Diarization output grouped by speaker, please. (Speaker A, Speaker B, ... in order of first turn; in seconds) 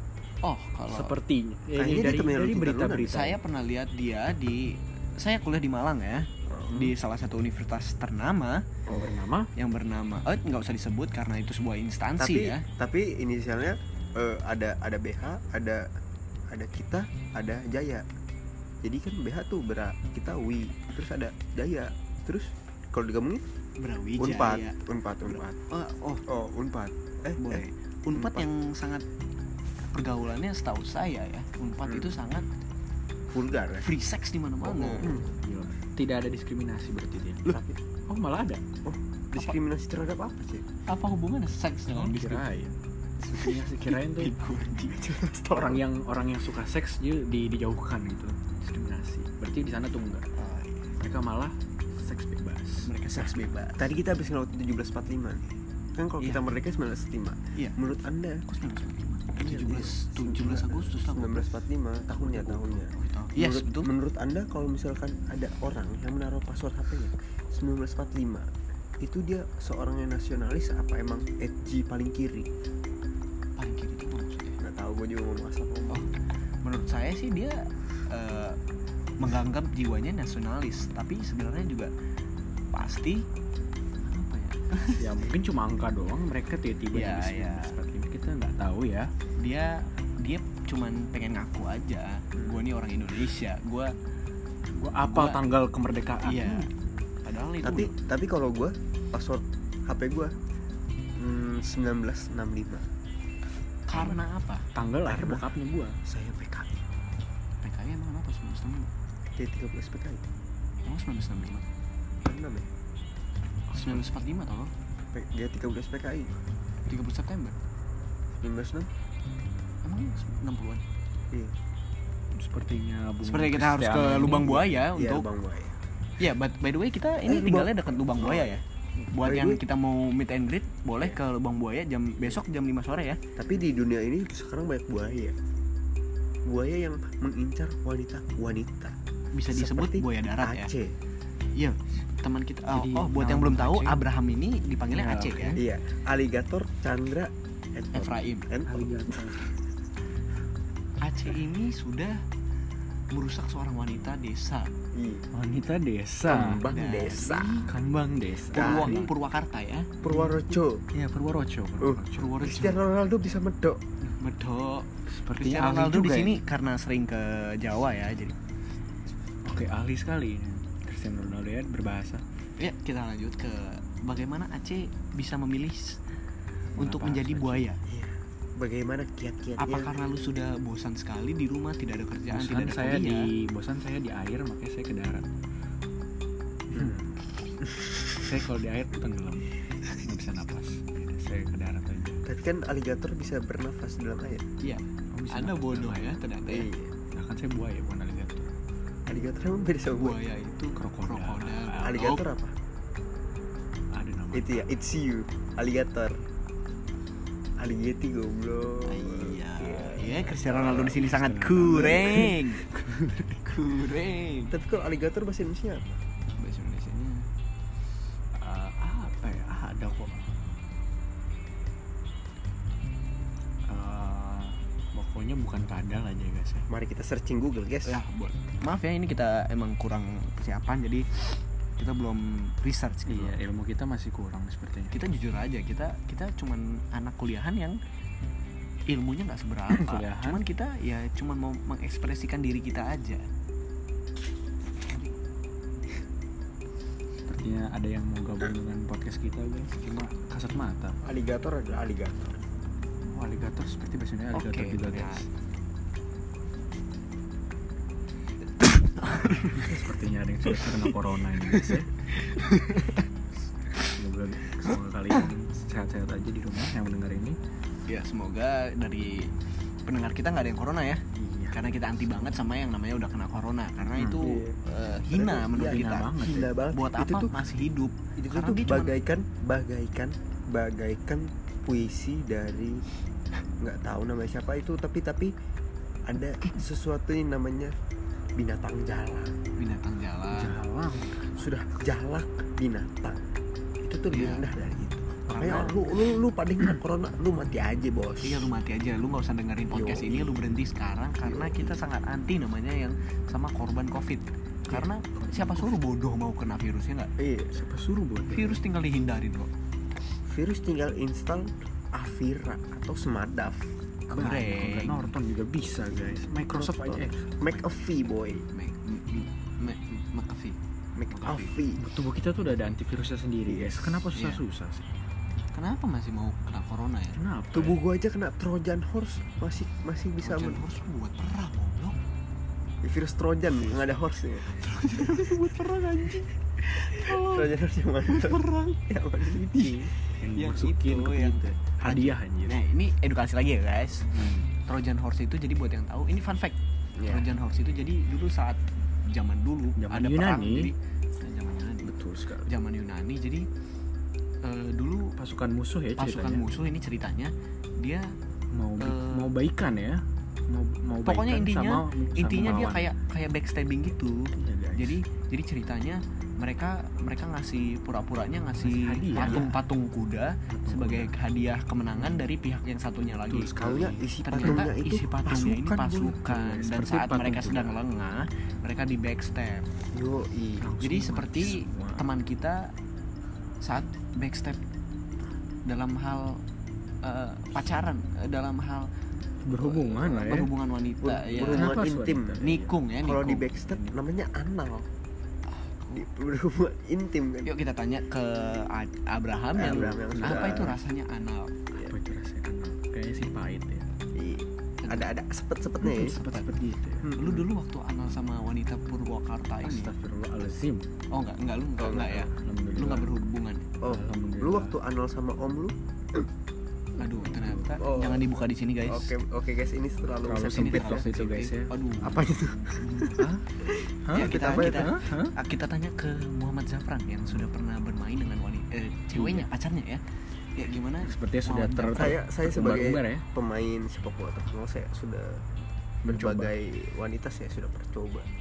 Speaker A: 0.4-1.1, 3.1-8.6, 9.6-12.6, 23.8-24.8, 25.3-26.2, 27.4-29.1, 29.9-32.5, 33.8-35.1, 40.9-42.4, 43.4-45.0, 50.4-50.9, 52.9-53.8, 58.5-61.5, 62.9-63.9, 73.5-74.6, 76.6-78.6, 79.2-81.9, 82.7-83.2, 84.0-85.1, 86.9-87.7, 89.4-93.9, 95.0-95.5, 96.2-96.7, 97.2-97.9, 103.9-104.6, 107.6-108.9, 110.8-111.6, 113.7-114.7, 116.8-117.6, 119.8-120.8, 123.2-125.2, 126.2-133.2, 139.3-140.7, 141.5-145.6, 147.9-148.5, 151.0-152.2, 153.1-154.7, 156.6-157.7, 158.5-159.9, 162.2-162.8, 164.0-168.3, 172.6-176.0, 176.8-177.8, 179.6-183.3, 194.6-196.7, 199.9-202.3, 208.8-212.7, 213.4-214.5, 216.4-217.2, 227.8-233.3, 234.9-237.8, 238.9-243.2, 254.3-255.2, 259.0-259.5, 262.2-263.0, 267.9-269.3, 269.9-278.9, 289.6-290.6, 294.1-294.5, 295.3-295.9, 298.2-307.1, 308.3-309.5, 314.1-315.1, 318.5-320.6, 321.1-321.6, 324.1-324.4, 325.5-327.2, 330.2-332.0, 334.5-337.5, 338.1-338.8, 340.3-351.9, 352.4-353.5, 354.4-355.1, 355.9-358.1, 358.8-359.4, 361.1-373.6, 374.2-379.7, 380.8-382.7, 383.6-384.6, 385.6-386.4, 387.0-388.9, 389.5-391.8, 392.4-393.9, 395.5-396.1, 397.4-401.9, 404.8-405.1, 406.0-406.5, 407.2-409.9, 411.1-413.7, 417.0-419.1, 420.4-422.2, 424.1-430.0, 430.5-432.2
Speaker B: 0.9-3.4, 8.9-9.5, 35.1-37.6, 38.1-38.6, 41.9-44.4, 45.5-50.3, 51.0-52.9, 62.1-62.9, 85.0-89.1, 94.7-96.7, 104.7-106.0, 113.8-114.0, 122.3-124.7, 142.7-144.0, 144.9-145.6, 148.7-149.4, 155.3-156.7, 157.7-159.1, 160.1-162.6, 165.1-166.4, 169.4-172.2, 176.8-177.7, 182.3-185.3, 186.7-187.1, 188.1-192.2, 195.1-196.2, 197.1-198.5, 200.7-202.2, 203.9-204.7, 210.5-213.4, 218.3-220.3, 223.7-226.7, 233.1-235.0, 239.7-240.4, 247.2-251.0, 253.1-255.2, 259.2-262.0, 263.8-267.4, 271.1-271.6, 274.0-274.4, 275.5-276.5, 290.3-291.3, 305.1-305.8, 307.5-308.6, 314.1-317.9, 321.2-324.9, 327.1-327.8, 339.3-342.6, 344.1-344.5, 349.8-350.7, 351.8-352.5, 355.1-356.4, 358.5-362.9, 364.3-365.0, 368.6-369.6, 370.5-371.1, 372.0-372.2, 373.1-374.7, 376.2-377.8, 380.6-382.1, 389.4-390.5, 391.3-392.8, 399.6-400.8, 401.8-403.9, 405.8-407.1, 409.6-410.9, 412.3-413.1, 413.9-414.8, 417.0-417.8, 420.2-421.8, 422.8-423.4, 424.0-425.4, 429.1-429.5, 431.0-433.2, 436.0-436.5
Speaker C: 1.8-3.2, 6.5-6.9, 12.2-15.9, 16.5-18.1, 18.8-23.4, 24.2-25.6, 26.3-28.5, 31.9-32.1, 33.3-33.9, 34.6-35.2, 37.5-37.8, 38.8-40.7, 44.9-45.8, 53.1-58.4, 59.4-68.5, 69.0-72.5, 74.6-76.1, 97.6-100.3, 101.2-102.9, 105.0-105.5, 106.0-106.8, 109.3-110.2, 112.2-112.7, 115.1-116.3, 118.3-118.9, 124.4-125.8, 127.2-128.6, 129.1-129.6, 133.3-135.3, 136.4-138.9, 139.5-140.9, 145.6-149.3, 154.9-155.2, 156.2-157.7, 158.5-159.0, 160.0-160.8, 161.8-163.8, 177.8-179.9, 186.7-187.1, 192.2-194.5, 196.5-196.9, 199.1-200.2, 201.8-202.5, 204.3-206.2, 207.6-211.0, 211.6-212.3, 214.5-216.0, 226.7-228.0, 251.0-252.2, 274.2-274.6, 275.1-277.3, 278.2-282.8, 283.6-285.3, 286.1-287.7, 288.4-289.4, 291.4-293.2, 293.8-298.5, 299.7-300.5, 301.2-301.8, 307.2-307.6, 310.2-313.7, 316.5-318.5, 320.9-321.8, 323.5-324.0, 327.5-330.6, 332.8-334.6, 336.6-339.9, 347.0-347.3, 369.1-369.5, 373.6-376.2, 379.9-380.7, 391.0-392.4, 393.0-394.9, 395.9-397.5, 399.5-400.8, 404.1-406.2, 407.0-407.5, 411.8-412.3, 413.8-416.3, 417.8-421.1, 422.0-425.0, 431.9-435.4, 436.0-438.3